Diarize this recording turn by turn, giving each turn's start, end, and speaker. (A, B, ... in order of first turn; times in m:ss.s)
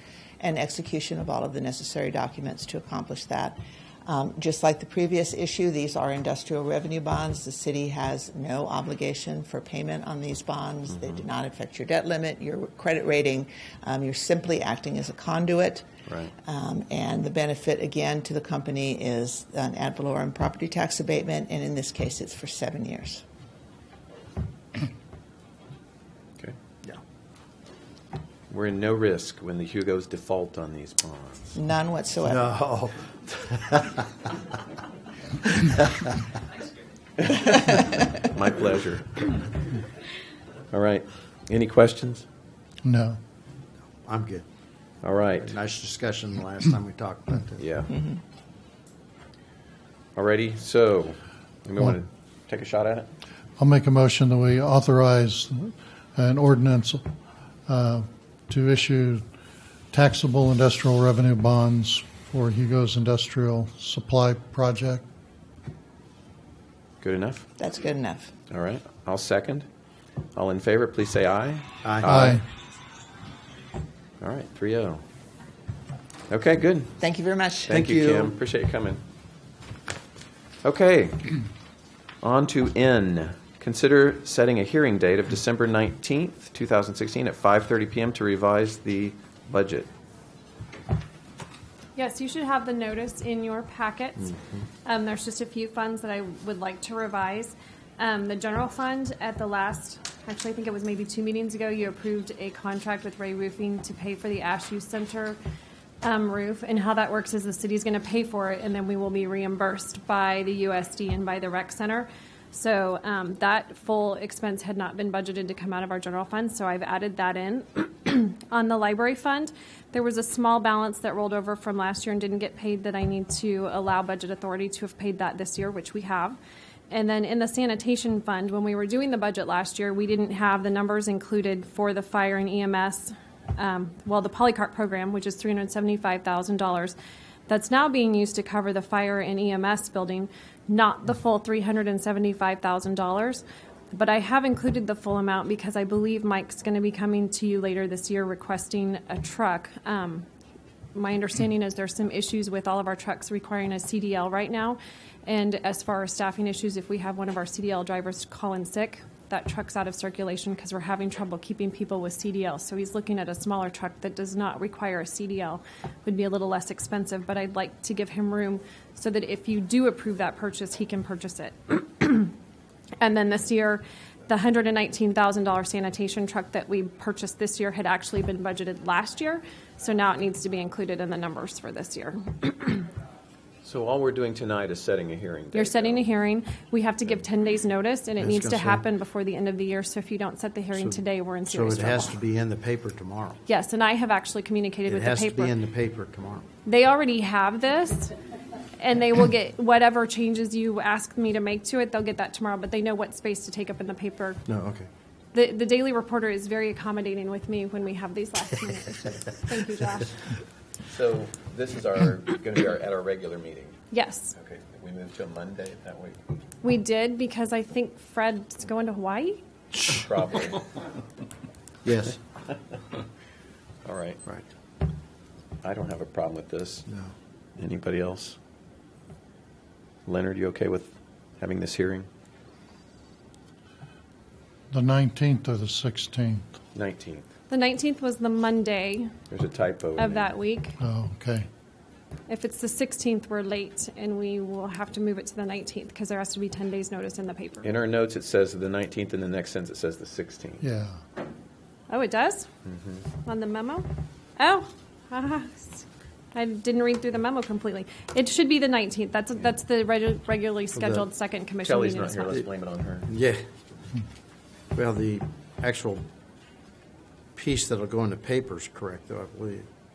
0:00.4-0:15.9 A
0:16.1-0:16.3 B
0:16.4-0:23.2 A
0:28.5-0:31.6 B
0:31.6-0:32.4 A
0:32.2-0:34.1 C
0:35.6-0:36.1 C
0:37.2-0:39.3 B
0:40.7-0:42.3 B
0:42.8-0:43.2 D
0:44.0-0:44.4 C
0:45.0-0:45.6 B
0:45.4-0:47.6 C
0:47.6-0:47.9 B
0:50.2-0:53.1 B
0:53.6-0:57.0 D
0:57.7-0:59.2 D
0:59.9-1:05.0 D
1:07.0-1:07.5 B
1:07.6-1:08.3 A
1:08.5-1:09.7 B
1:10.4-1:12.4 B
1:11.8-1:12.2 C
1:12.1-1:12.4 D
1:14.2-1:15.0 B
1:16.3-1:17.0 B
1:17.0-1:17.8 A
1:17.7-1:18.4 C
1:17.7-1:19.0 B
1:20.6-1:21.4 B
1:22.2-1:29.9 B
1:32.0-1:45.4 E
1:46.0-2:06.4 E
2:06.9-2:17.0 E
2:17.5-2:30.3 E
2:31.0-2:52.3 E
2:53.0-3:02.9 E
3:03.6-3:06.1 B
3:05.5-3:12.2 E
3:08.2-3:08.8 C
3:10.7-3:13.4 C
3:13.5-3:15.6 E
3:14.9-3:16.5 C
3:16.7-3:18.1 E
3:18.8-3:24.4 E
3:24.5-3:24.9 C
3:25.3-3:30.2 E
3:30.9-3:33.8 B
3:33.9-3:34.4 E
3:34.4-3:36.2 B
3:36.6-3:39.4 E
3:39.8-3:40.7 B
3:41.8-3:42.2 C
3:43.8-3:44.2 B
3:45.6-3:46.8 B
3:47.6-3:48.4 B
3:50.1-3:52.1 B
3:54.7-3:56.4 D
3:56.8-3:57.3 B
3:57.5-3:59.2 E
3:59.3-4:00.3 B
4:00.0-4:00.8 E
4:00.8-4:01.5 D
4:02.3-4:07.7 E
4:07.6-4:10.6 B
4:10.6-4:11.0 D
4:11.9-4:12.5 E
4:12.7-4:13.0 B
4:13.2-4:13.9 E
4:14.4-4:22.4 E
4:20.7-4:21.1 C
4:21.6-4:23.1 B
4:23.1-4:23.4 C
4:24.7-4:26.1 C
4:27.4-4:29.7 C